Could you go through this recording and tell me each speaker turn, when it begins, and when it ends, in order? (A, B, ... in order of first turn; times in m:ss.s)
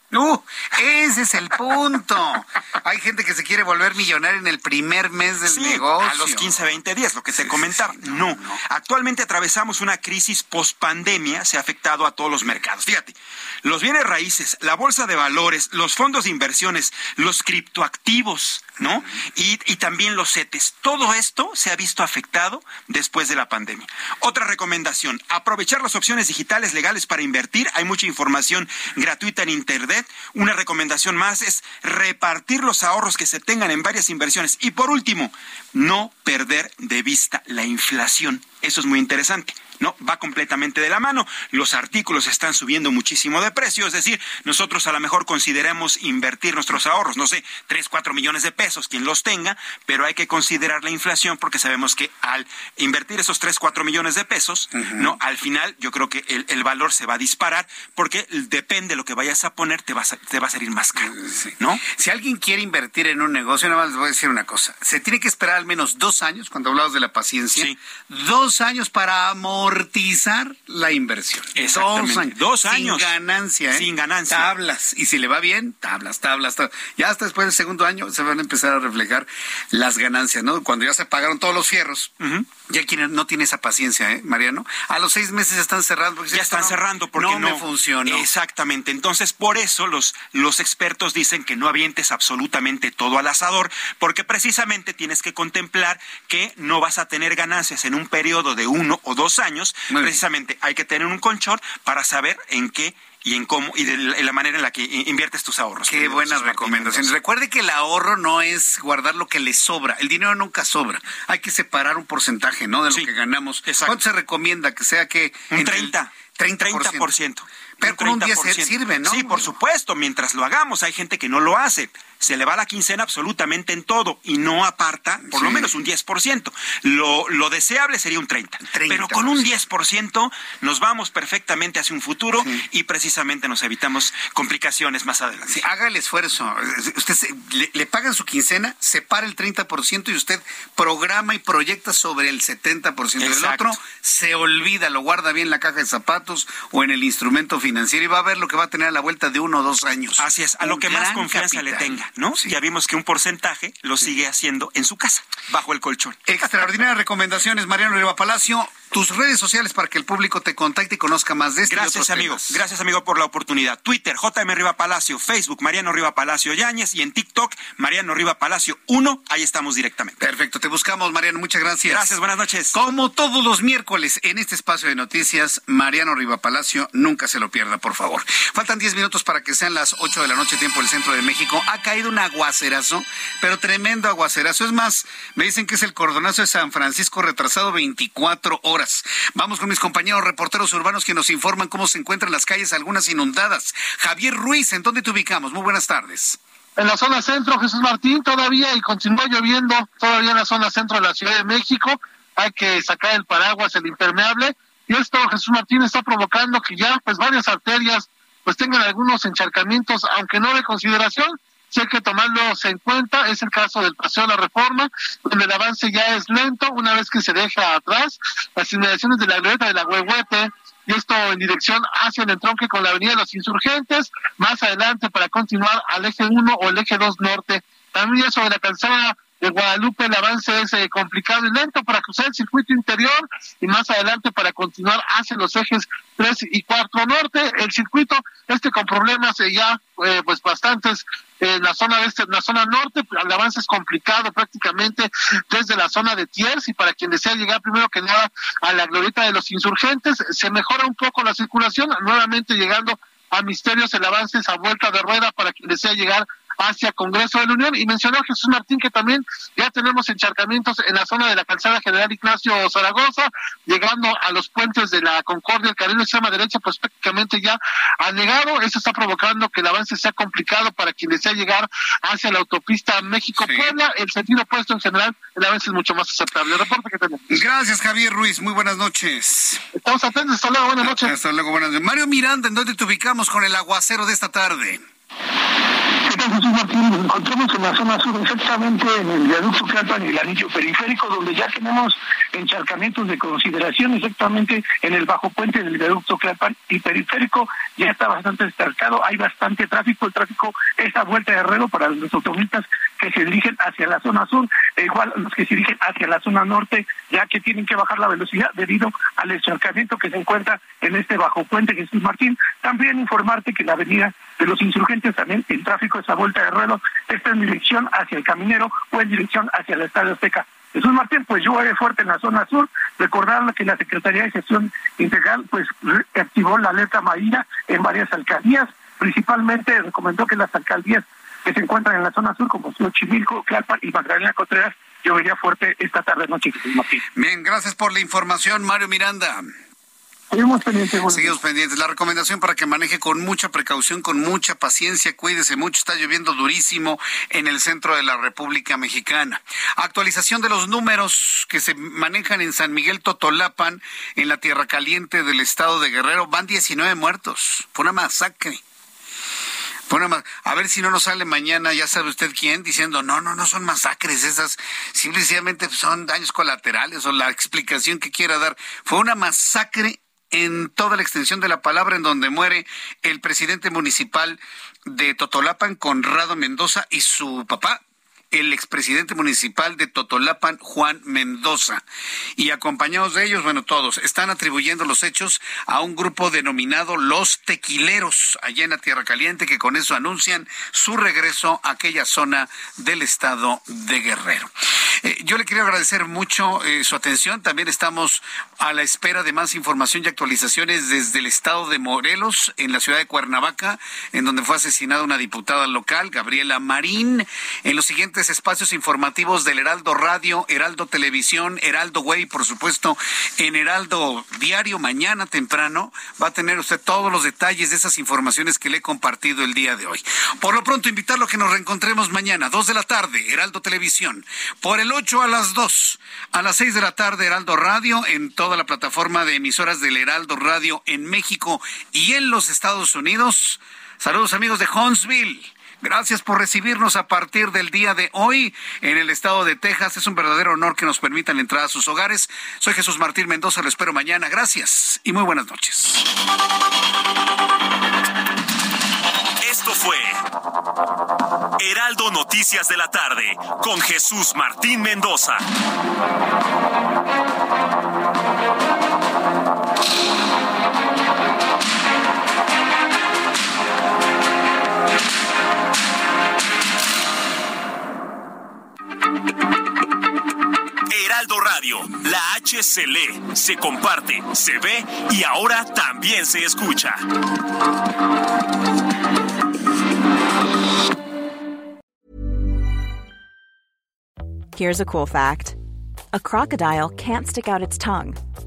0:00.1-0:06.6 A
0:05.4-1:01.8 B
0:07.3-0:08.6 A
0:54.8-0:55.1 A
1:01.1-1:22.1 A
1:11.5-1:13.1 B
1:13.7-1:14.5 B
1:22.2-1:22.5 B
1:22.6-1:28.2 A
1:26.3-1:47.1 B
1:39.9-1:40.2 A
1:45.9-1:57.1 A
1:53.7-1:53.9 B
1:55.5-2:15.6 B
1:57.8-1:59.5 A
2:05.2-2:05.7 A
2:08.7-2:09.4 A
2:15.5-2:32.5 A
2:23.2-2:23.8 B
2:30.2-2:36.2 B
2:36.2-2:42.6 A
2:41.7-2:50.2 B
2:50.2-2:52.1 A
2:51.9-2:52.7 B
2:52.7-3:16.4 A
3:16.8-4:37.2 C
4:33.4-4:33.7 A
4:37.3-4:39.6 A
4:39.7-4:41.1 C
4:40.8-4:44.8 A
4:46.0-5:37.0 D
5:37.1-5:39.5 A
5:40.3-5:41.4 D
5:41.1-5:58.6 A
5:59.9-6:21.8 A
6:22.4-6:34.5 A
6:35.0-7:26.1 A
7:29.4-7:30.2 E
7:31.6-7:35.4 E
7:50.9-7:57.1 E
8:04.5-8:05.6 F
8:06.1-8:08.2 F